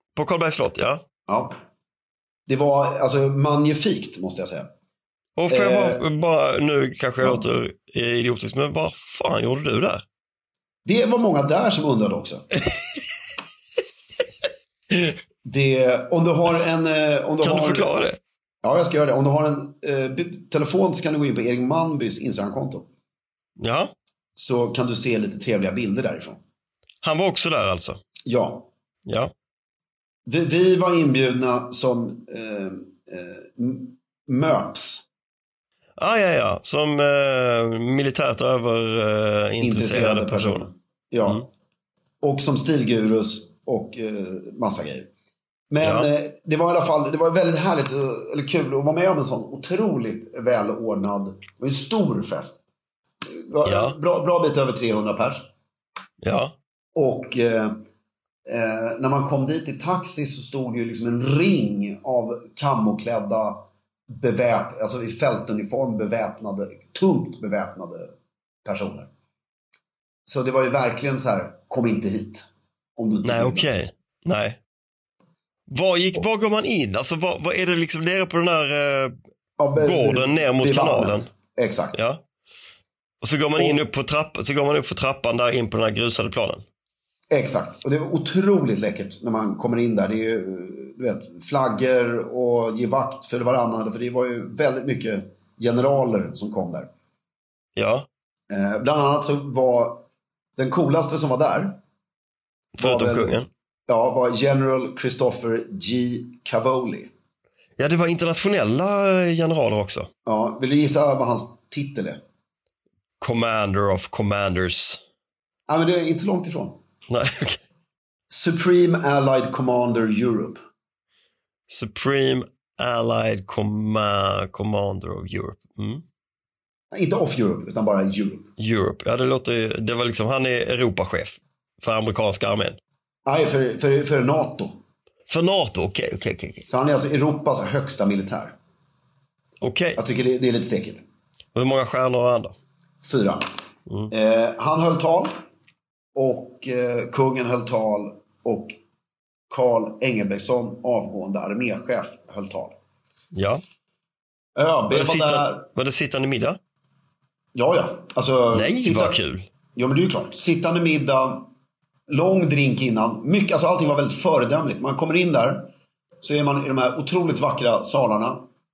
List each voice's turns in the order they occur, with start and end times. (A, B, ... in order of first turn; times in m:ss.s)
0:00.2-0:01.0 A
0:01.3-0:01.6 B
0:02.5-0:04.7 B
0:05.4-0:10.0 A
0:05.5-0:06.0 B
0:10.8-0:12.5 B
0:15.4-0:18.1 B
0:17.4-0:18.2 A
0:18.6-0:22.9 B
0:23.6-0:23.9 A
0:24.4-0:26.4 B
0:27.0-0:28.0 A
0:28.3-0:28.7 B
0:29.1-0:29.3 A
0:30.3-0:35.0 B
0:36.0-0:40.7 A
0:39.6-0:41.5 B
0:42.2-0:45.1 B
0:45.7-0:52.6 B
0:45.8-0:46.1 A
0:53.3-0:55.5 B
0:53.6-0:54.0 A
0:56.2-0:56.6 A
0:57.0-0:57.8 B
0:58.5-1:08.1 B
1:08.6-1:09.1 B
1:10.3-1:12.5 B
1:13.0-1:13.7 B
1:13.2-1:14.6 A
1:15.7-1:19.2 A
1:19.6-1:22.0 B
1:19.8-1:21.3 A
1:21.9-1:22.2 A
1:23.2-1:26.6 A
1:23.6-1:23.8 B
1:27.3-1:36.9 B
1:37.8-1:38.1 A
1:38.5-1:40.0 B
1:40.6-1:41.8 B
1:42.8-1:43.5 A
1:42.8-1:47.1 B
1:47.8-1:50.1 A
1:50.3-1:52.2 B
1:53.2-1:55.0 A
1:55.7-1:56.8 B
1:57.1-1:57.6 A
1:58.3-2:00.6 B
2:01.7-2:06.0 A
2:06.9-2:08.5 B
2:08.6-2:12.8 A
2:13.3-2:14.8 B
2:15.3-2:16.7 A
2:16.7-2:18.6 B
2:19.6-2:20.0 A
2:20.0-2:21.0 B
2:21.6-2:22.6 A
2:23.0-2:23.5 B
2:24.1-2:25.4 B
2:26.2-2:28.8 B
2:29.5-2:32.8 B
2:33.3-2:33.6 A
2:34.6-2:35.7 B
2:34.9-2:36.6 A
2:37.6-2:39.2 B
2:38.5-2:39.5 A
2:39.7-2:41.5 B
2:42.1-2:45.7 B
2:46.2-2:48.5 B